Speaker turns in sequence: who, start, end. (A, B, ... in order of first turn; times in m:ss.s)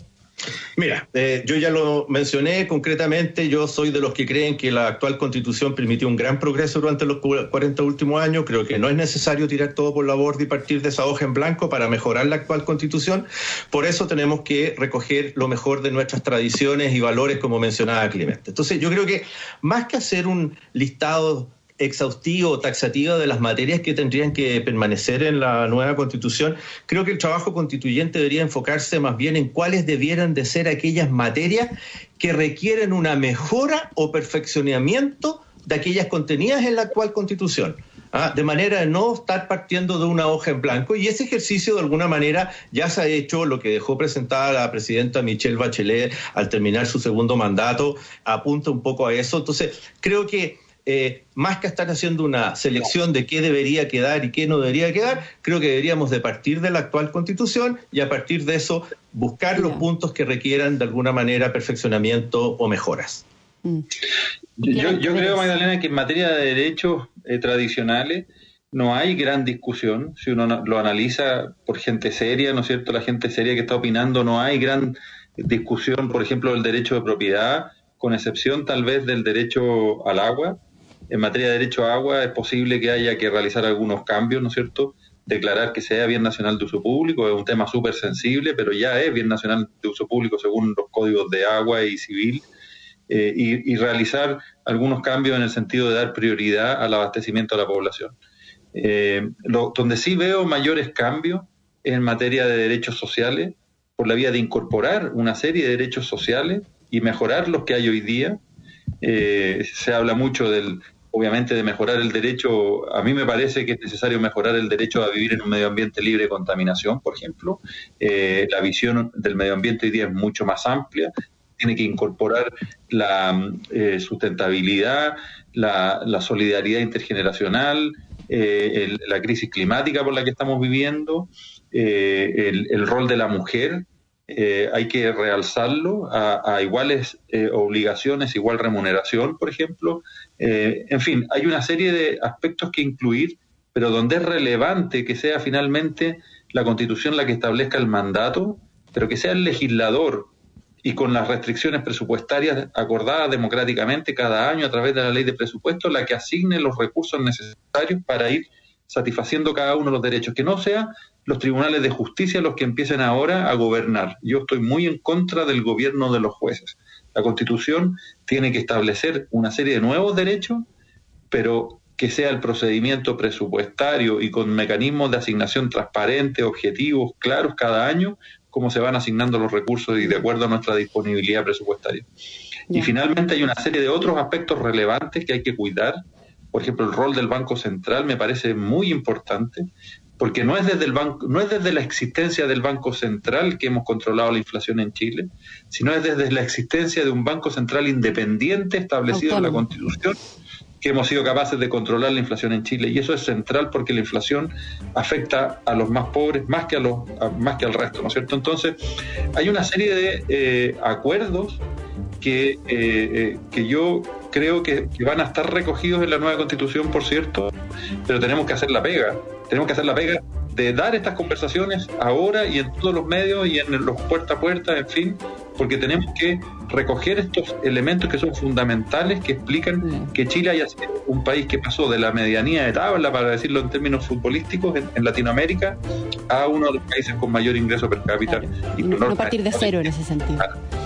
0:00.8-1:03.2 A
0:59.6-0:59.8 B
1:04.6-1:20.6 C
1:04.7-1:05.5 B
1:21.1-1:32.4 C
1:33.1-1:38.2 C
1:38.7-1:48.4 C
1:49.0-2:30.3 C
2:30.8-2:50.6 C
2:51.3-3:02.0 C
3:02.7-3:09.7 C
3:10.2-3:20.2 C
3:19.1-3:19.6 B
3:20.8-3:28.8 C
3:29.3-3:31.6 C
3:32.2-3:37.5 C
3:38.1-3:55.8 C
3:49.8-3:50.1 B
3:56.3-3:59.8 C
3:58.3-4:00.5 B